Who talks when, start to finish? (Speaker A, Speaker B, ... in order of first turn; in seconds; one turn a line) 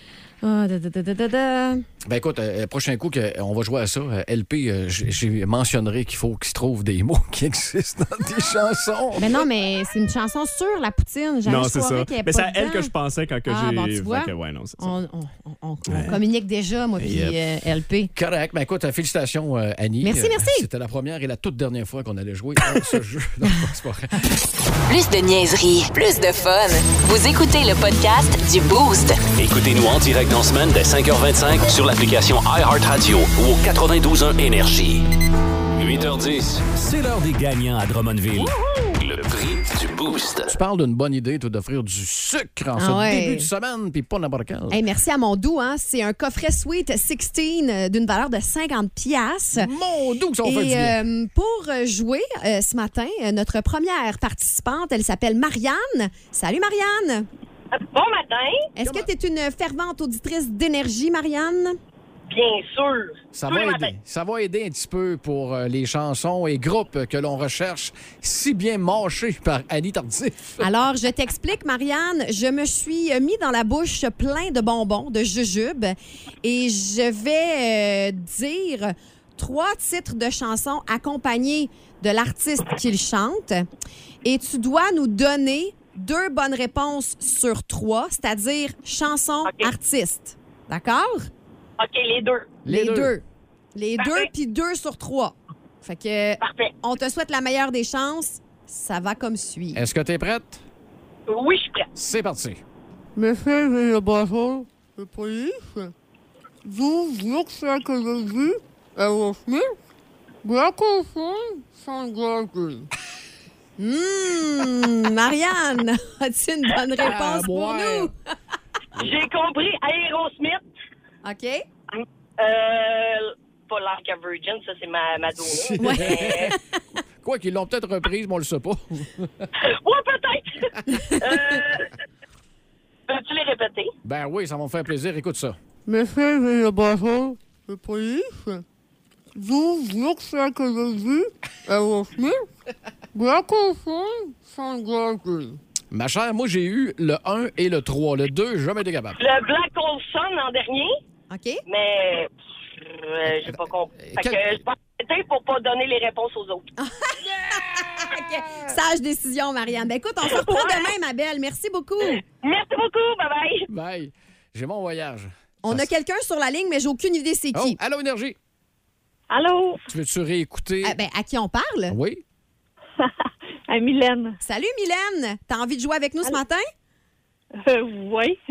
Speaker A: 0.4-1.9
Speaker B: 2.0-9.5
Speaker A: 9.2-12.9
Speaker C: 11.4-15.0
Speaker A: 13.5-18.1
Speaker C: 15.9-16.2
Speaker C: 17.0-17.4
Speaker B: 18.1-24.3
Speaker A: 20.0-20.6
Speaker D: 24.9-29.3
Speaker E: 29.3-35.0
Speaker E: 35.8-40.5
Speaker B: 40.5-44.8
Speaker A: 42.8-43.5
Speaker A: 44.7-49.7
Speaker B: 49.5-51.0
Speaker A: 50.4-57.3
Speaker F: 57.7-58.7
Speaker A: 58.7-61.8
Speaker B: 58.8-59.1
Speaker F: 62.3-64.0
Speaker B: 63.3-70.6
Speaker A: 70.6-83.7
Speaker A: 84.2-91.3
Speaker F: 89.4-89.7
Speaker F: 91.8-92.5
Speaker B: 92.6-93.1
Speaker A: 92.7-93.2
Speaker A: 93.7-99.8
Speaker F: 94.0-94.3
Speaker F: 96.4-96.7
Speaker B: 99.7-100.6
Speaker F: 101.3-101.9
Speaker B: 102.0-102.6
Speaker G: 103.2-105.9
Speaker G: 106.6-109.7
Speaker G: 110.4-112.9
Speaker A: 113.8-118.1
Speaker B: 117.0-118.1
Speaker F: 118.9-120.6
Speaker A: 121.2-121.6
Speaker F: 121.9-126.5
Speaker B: 125.5-126.6
Speaker A: 125.8-126.6
Speaker B: 127.2-129.5
Speaker F: 129.6-131.9
Speaker A: 130.9-131.2
Speaker F: 133.1-133.9
Speaker B: 134.0-135.6
Speaker G: 135.9-138.6
Speaker G: 139.3-142.4
Speaker G: 143.1-145.6
Speaker B: 145.9-149.2
Speaker F: 149.2-150.9
Speaker A: 151.3-151.6
Speaker F: 151.7-156.7
Speaker B: 153.3-154.6
Speaker A: 156.8-162.2
Speaker B: 157.3-158.7
Speaker F: 160.3-160.9
Speaker F: 162.2-163.7
Speaker B: 163.7-165.9
Speaker A: 165.6-167.8
Speaker B: 167.5-168.4
Speaker H: 169.3-169.8
Speaker B: 169.9-171.0
Speaker A: 170.8-171.9
Speaker B: 171.9-172.2
Speaker H: 173.0-174.4
Speaker A: 174.4-176.6
Speaker H: 177.6-178.4